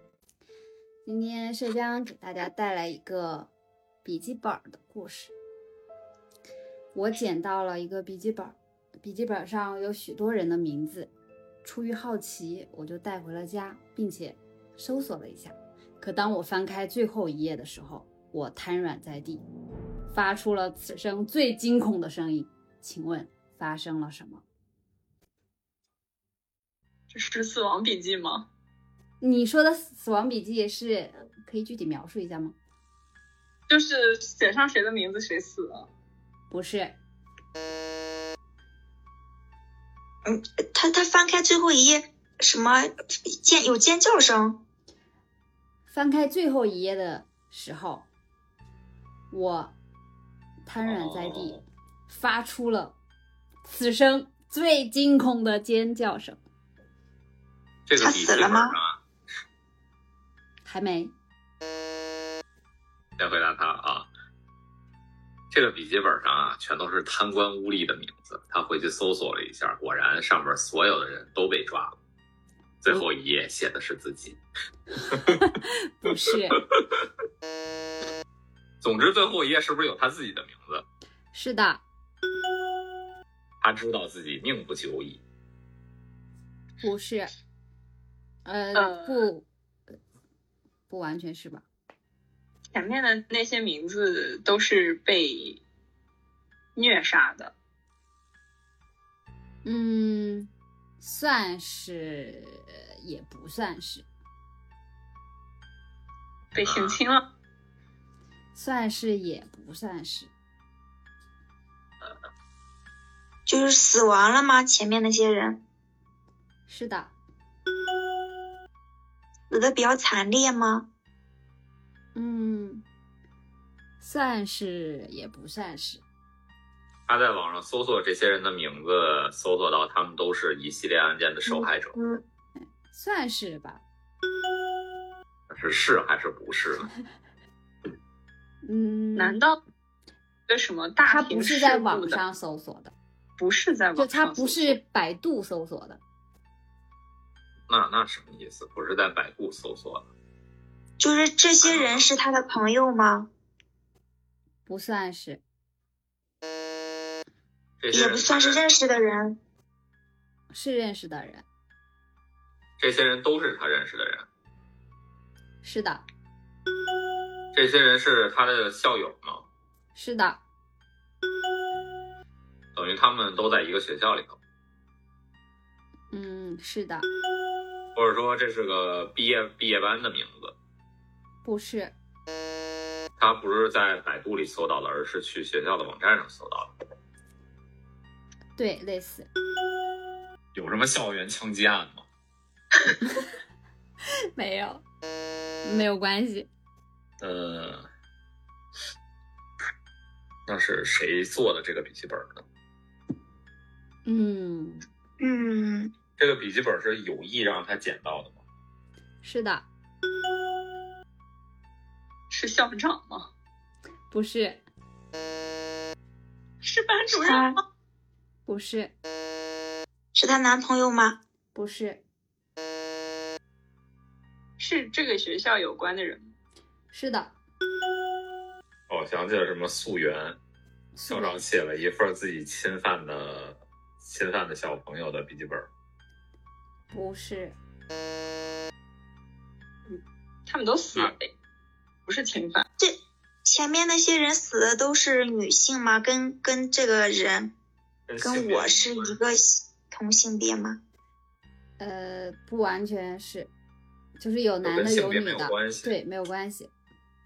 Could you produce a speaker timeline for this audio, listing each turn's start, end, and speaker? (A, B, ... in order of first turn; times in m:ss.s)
0:01.0-0:03.5 A
0:04.0-0:05.3 A
0:06.9-0:11.1 A
0:11.6-0:19.4 A
0:20.1-0:24.4 A
0:27.1-0:28.5 B
0:29.2-0:32.6 A
0:33.7-0:35.9 B
0:36.5-0:37.0 A
0:40.2-0:44.6 C
0:45.9-0:48.1 A
0:49.3-0:49.7 A
0:50.6-0:53.0 A
0:50.8-0:51.6 D
0:53.6-0:56.4 A
0:57.9-0:59.0 D
0:58.0-0:58.7 C
1:00.6-1:01.1 A
1:03.2-1:04.1 D
1:05.5-1:12.0 D
1:12.8-1:14.4 D
1:15.1-1:16.6 A
1:18.8-1:20.8 D
1:21.3-1:21.8 A
1:23.6-1:25.2 D
1:26.8-1:27.3 A
1:28.4-1:29.4 A
1:28.7-1:29.3 B
1:30.9-1:31.6 A
1:32.7-1:35.6 B
1:36.8-1:37.5 B
1:39.6-1:44.0 A
1:46.5-1:47.2 B
1:46.6-1:47.0 D
1:48.5-1:50.3 A
1:53.5-1:55.6 C
1:56.7-1:57.1 A
1:59.5-2:00.9 C
2:02.1-2:02.8 A
2:04.0-2:06.0 A
2:07.1-2:11.9 D
2:11.5-2:12.2 C
2:12.9-2:13.8 A
2:15.5-2:16.9 D
2:18.6-2:19.4 A
2:19.2-2:19.6 B
2:20.5-2:22.2 B
2:21.0-2:22.9 A
2:23.4-2:24.8 B
2:23.9-2:26.0 A
2:27.7-2:30.1 D
2:31.0-2:33.3 C
2:31.6-2:32.1 D
2:34.6-2:35.4 A
2:37.8-2:38.6 D
2:37.9-2:39.4 C
2:40.5-2:41.4 A
2:42.8-2:44.3 D
2:45.6-2:46.0 A
2:47.5-2:49.4 D
2:49.9-2:50.4 A
2:52.7-2:54.4 D
2:56.1-2:57.1 A
2:57.9-3:00.5 D
3:01.4-3:01.9 A
3:03.2-3:06.7 D
3:08.6-3:09.3 A
3:10.5-3:12.0 D
3:14.3-3:14.8 A
3:15.6-3:16.5 A
3:17.2-3:17.9 D
3:20.4-3:22.4 D
3:24.0-3:24.8 A
3:25.2-3:25.9 C
3:26.2-3:28.4 D
3:29.2-3:29.7 A
3:32.3-3:33.3 B
3:34.1-3:34.6 A
3:36.6-3:37.6 B
3:37.1-3:37.6 C
3:38.4-3:38.9 A
3:40.1-3:41.2 C
3:41.5-3:42.0 A
3:44.6-3:46.3 B
3:46.9-3:47.4 A
3:48.9-3:50.4 D
3:50.9-3:51.4 A
3:51.1-3:55.7 D
3:56.9-3:57.6 A
3:59.9-4:01.3 B
4:02.0-4:02.6 B
4:02.8-4:07.5 C
4:08.1-4:09.2 D
4:08.2-4:10.8 C
4:11.8-4:13.5 A
4:14.2-4:16.7 A
4:14.6-4:15.9 D